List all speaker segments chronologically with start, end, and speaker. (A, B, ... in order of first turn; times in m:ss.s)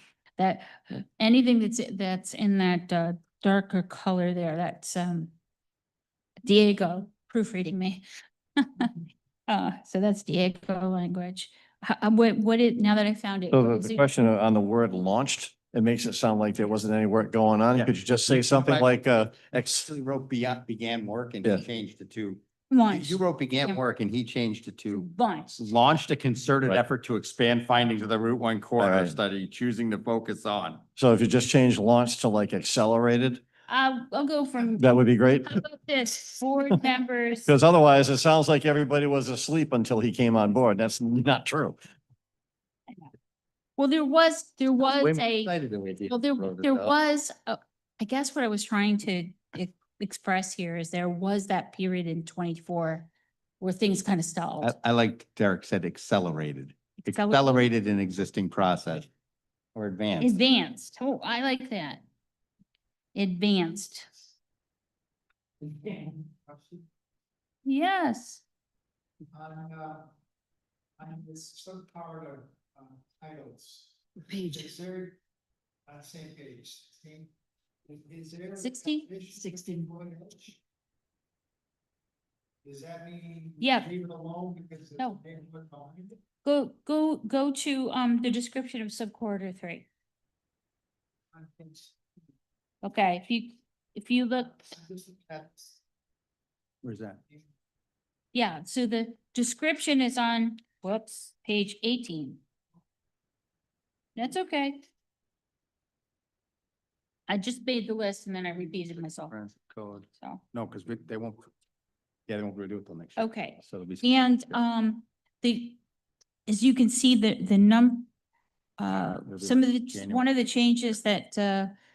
0:00.4-0:05.3 A
0:06.4-0:08.0 A
0:08.6-0:09.0 A
0:09.5-0:14.1 A
0:13.5-0:19.9 B
0:17.7-0:18.9 C
0:19.6-0:30.8 C
0:22.7-0:23.8 A
0:24.9-0:25.6 A
0:28.8-0:29.1 B
0:31.0-0:33.4 B
0:33.7-0:34.9 A
0:34.8-0:35.6 B
0:35.4-0:37.5 A
0:37.4-0:41.8 B
0:43.8-0:45.5 A
0:44.8-0:46.9 C
0:46.1-0:53.1 A
0:53.6-0:54.8 A
0:54.6-0:59.1 C
0:57.0-0:57.7 A
0:59.7-1:00.3 C
1:00.2-1:02.0 A
1:03.1-1:04.1 A
1:05.6-1:06.8 D
1:07.6-1:08.4 A
1:09.3-1:10.1 D
1:11.0-1:15.2 D
1:15.9-1:17.3 D
1:17.8-1:20.6 D
1:18.6-1:19.9 A
1:22.6-1:26.2 D
1:23.6-1:23.9 A
1:26.4-1:29.9 A
1:31.4-1:31.8 D
1:32.8-1:34.8 A
1:34.8-1:35.6 D
1:36.8-1:37.2 C
1:38.3-1:42.4 A
1:44.2-1:44.8 A
1:47.3-1:49.3 A
1:49.1-1:51.5 C
1:52.3-1:54.0 C
1:53.2-1:55.8 A
1:56.4-1:58.1 A
1:58.8-2:01.7 A
1:59.2-2:00.3 C